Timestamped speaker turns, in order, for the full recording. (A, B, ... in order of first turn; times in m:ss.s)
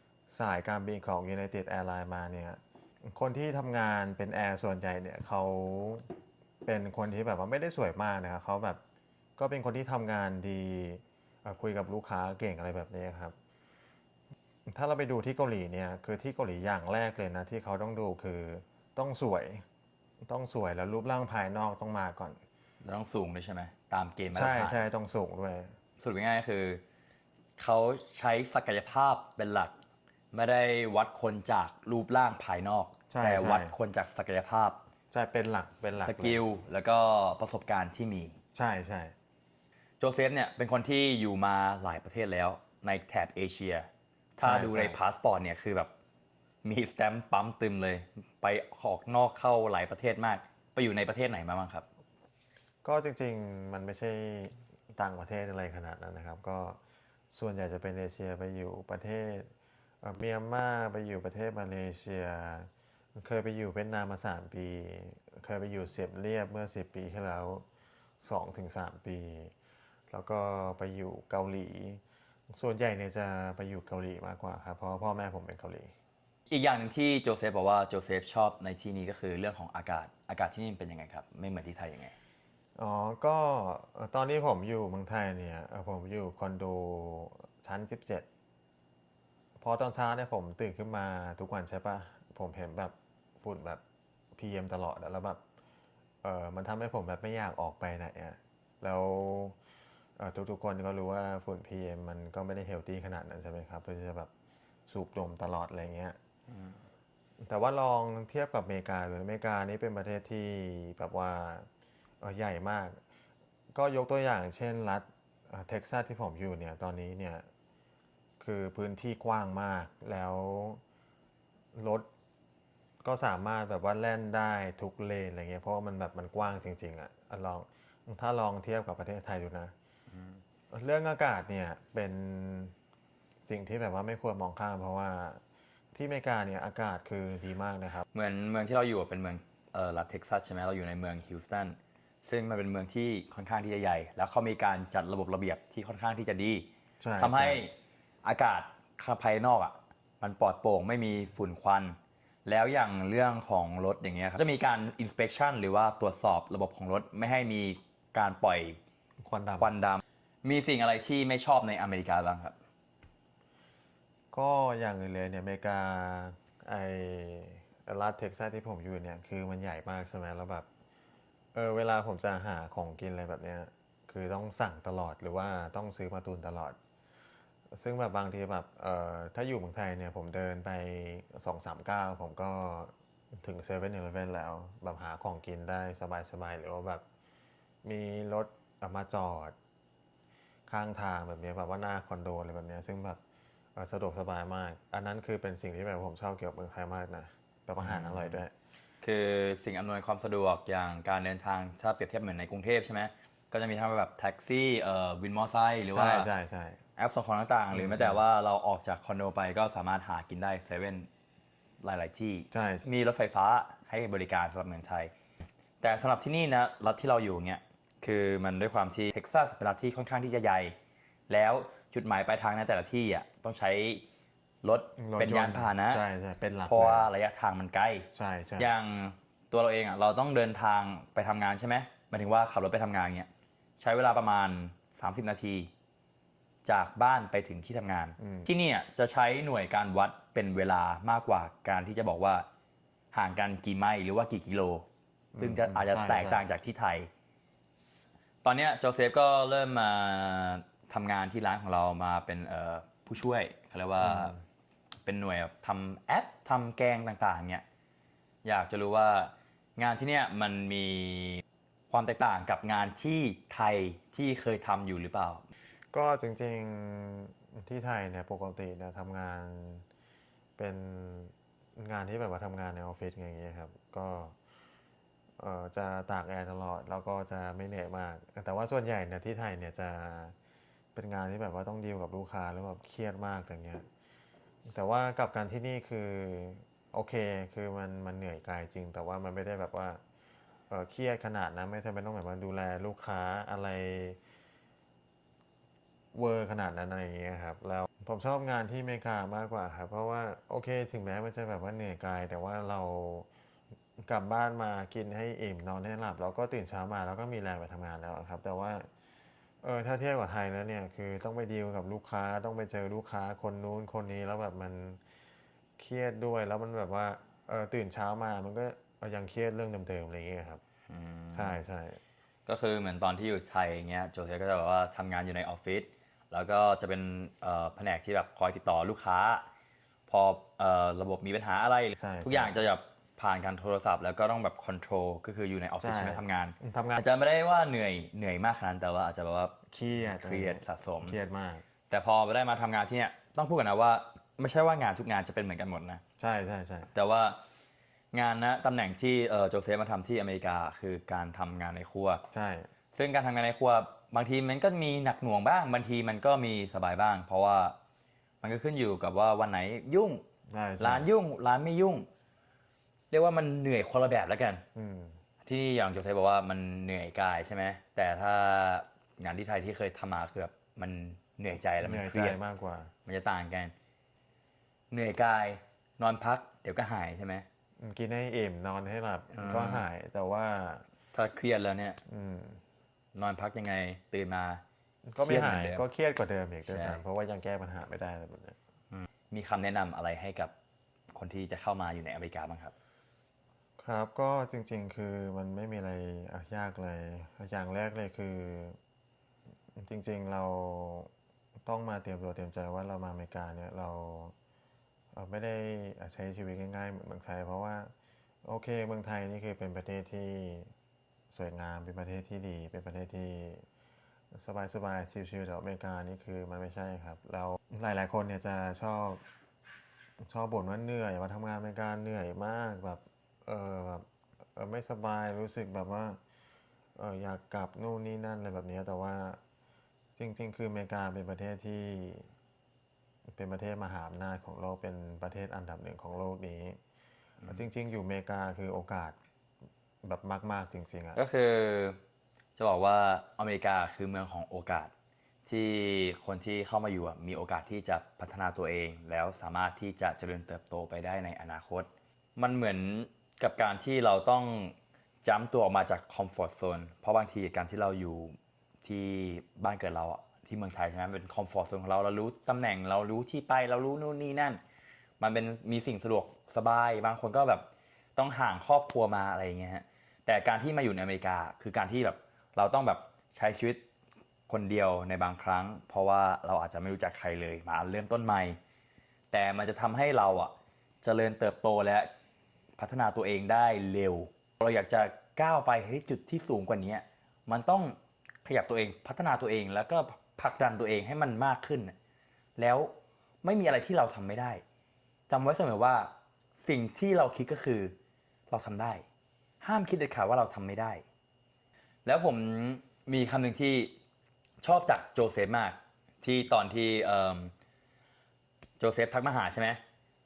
0:00.3-0:06.1 A
0:06.6-0:08.8 A
0:09.4-0:13.4 A
0:14.7-0:19.6 A
0:20.2-0:22.4 A
0:22.8-0:24.8 B
0:24.3-0:25.7 A
0:26.0-0:26.8 B
0:27.6-0:29.7 B
0:30.3-0:34.8 B
0:33.1-0:33.8 A
0:35.1-0:36.4 A
0:36.0-0:38.4 B
0:38.5-0:39.1 A
0:40.0-0:45.9 B
0:44.4-0:45.0 A
0:46.6-0:51.9 B
0:52.8-0:56.8 A
0:57.3-0:59.5 A
1:00.0-1:07.6 A
1:08.2-1:09.5 A
1:10.1-1:15.9 A
1:16.5-1:22.2 B
1:22.8-1:28.3 A
1:29.6-1:33.8 A
1:34.4-1:35.4 A
1:36.2-1:39.6 A
1:40.2-1:44.3 A
1:44.9-1:46.2 A
1:47.4-1:51.7 A
1:52.2-1:53.0 A
1:53.7-1:57.5 A
1:58.4-2:00.8 A
2:01.7-2:02.1 A
2:03.0-2:09.7 A
2:10.7-2:12.8 A
2:13.4-2:15.4 A
2:15.9-2:18.0 A
2:18.1-2:26.7 B
2:27.0-2:27.6 A
2:27.2-2:38.8 B
2:39.2-2:39.7 A
2:39.6-2:42.6 B
2:44.3-2:50.7 A
2:51.5-2:56.8 A
2:57.7-3:07.0 A
3:07.8-3:09.6 A
3:10.7-3:13.2 A
3:13.8-3:18.5 A
3:17.8-3:18.4 B
3:19.0-3:26.3 B
3:25.9-3:26.8 A
3:27.0-3:31.1 B
3:27.7-3:28.2 A
3:31.8-3:35.1 B
3:32.5-3:32.9 A
3:35.8-3:40.8 B
3:41.3-3:44.0 B
3:44.6-3:46.0 B
3:45.0-3:47.1 A
3:46.7-3:53.3 B
3:48.1-3:48.7 A
3:53.8-3:55.7 B
3:56.6-4:02.5 B
3:58.2-3:58.5 A
4:03.1-4:04.9 B
4:05.4-4:06.5 A
4:05.4-4:07.1 B
4:08.4-4:14.3 B
4:14.0-4:14.4 A
4:15.0-4:17.6 B
4:18.4-4:25.5 B
4:25.9-4:29.8 A
4:30.6-4:34.4 A
4:35.4-4:40.4 A
4:40.9-4:43.9 A
4:44.7-4:50.0 A
4:50.7-4:54.2 A
4:56.1-5:03.3 A
5:04.0-5:08.9 A
5:09.6-5:15.0 A
5:15.8-5:20.6 A
5:20.9-5:21.6 B
5:21.3-5:22.0 A
5:22.5-5:29.4 B
5:30.1-5:41.2 B
5:32.0-5:32.6 A
5:35.8-5:37.0 A
5:39.7-5:41.6 A
5:41.9-5:46.0 B
5:46.2-5:46.9 A
5:46.9-5:47.4 B
5:48.1-5:52.2 B
5:52.3-5:52.7 A
5:52.9-5:57.8 B
5:58.4-6:00.2 B
6:00.5-6:01.1 A
6:00.8-6:02.1 B
6:03.1-6:04.6 B
6:04.8-6:05.2 A
6:05.4-6:12.4 B
6:11.8-6:12.9 A
6:13.1-6:13.7 B
6:14.9-6:17.5 B
6:17.8-6:20.8 A
6:19.3-6:19.8 B
6:21.1-6:22.0 B
6:22.1-6:22.6 A
6:23.2-6:24.6 B
6:25.1-6:28.6 A
6:25.2-6:25.8 B
6:26.7-6:27.0 B
6:28.9-6:30.5 B
6:31.1-6:32.7 B
6:33.8-6:38.8 A
6:39.7-6:41.1 A
6:41.6-6:44.3 A
6:45.1-6:47.9 A
6:48.4-6:50.7 A
6:51.3-6:53.6 A
6:54.3-6:59.2 A
7:00.2-7:06.2 A
7:07.0-7:09.4 A
7:10.2-7:12.3 A
7:13.3-7:16.8 A
7:17.5-7:19.2 A
7:20.0-7:21.2 A
7:21.2-7:22.0 B
7:22.6-7:24.9 B
7:25.5-7:44.6 B
7:45.2-7:53.8 B
7:54.5-7:58.6 B
7:59.3-8:02.1 B
8:02.8-8:12.0 B
8:12.6-8:14.6 B
8:15.3-8:17.9 B
8:18.5-8:19.0 B
8:19.6-8:21.0 B
8:22.0-8:23.9 B
8:24.6-8:27.5 B
8:28.8-8:29.8 B